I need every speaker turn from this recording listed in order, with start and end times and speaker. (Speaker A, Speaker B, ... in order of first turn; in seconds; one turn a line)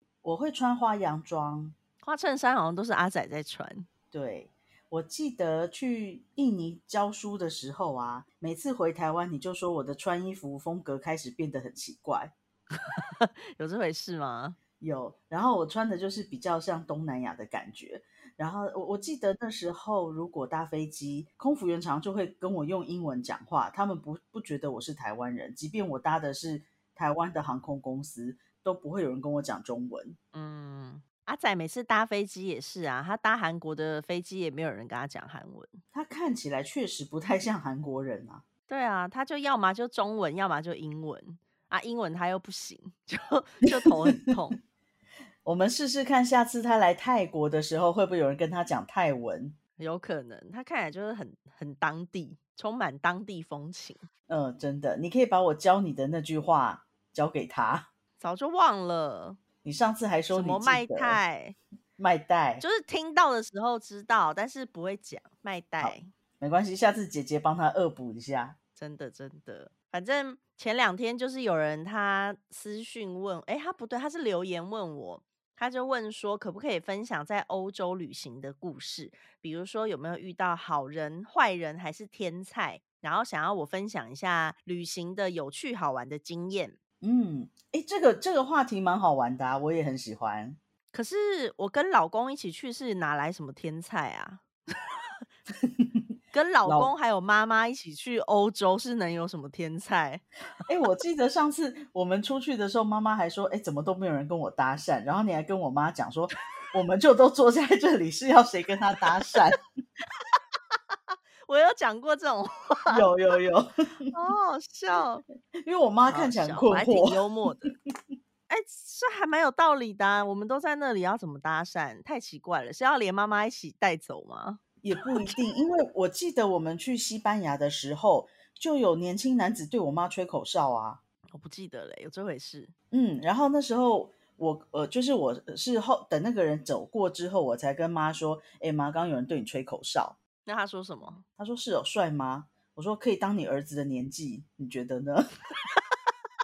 Speaker A: 0.2-1.7
Speaker B: 2.0-3.9
Speaker A: 4.1-12.3
Speaker B: 12.8-14.6
Speaker A: 14.8-30.2
Speaker B: 30.3-35.8
Speaker A: 35.9-38.4
Speaker B: 38.7-44.6
Speaker A: 45.4-49.6
Speaker B: 49.8-54.1
Speaker A: 54.3-57.9
Speaker B: 58.2-59.4
Speaker A: 59.6-61.2
Speaker B: 60.3-61.6
Speaker A: 62.0-62.6
Speaker B: 62.6-66.1
Speaker A: 65.8-68.5
Speaker B: 68.8-86.8
Speaker A: 87.0-90.6
Speaker B: 90.9-94.4
Speaker B: 96.3-100.2
Speaker A: 96.6-96.9
Speaker A: 100.6-109.6
Speaker B: 111.4-113.1
Speaker A: 112.9-113.7
Speaker B: 114.1-115.2
Speaker A: 115.6-117.2
Speaker B: 116.1-117.7
Speaker B: 118.5-125.3
Speaker A: 124.8-131.0
Speaker B: 131.3-132.7
Speaker A: 132.9-140.2
Speaker B: 140.4-141.2
Speaker A: 141.4-145.3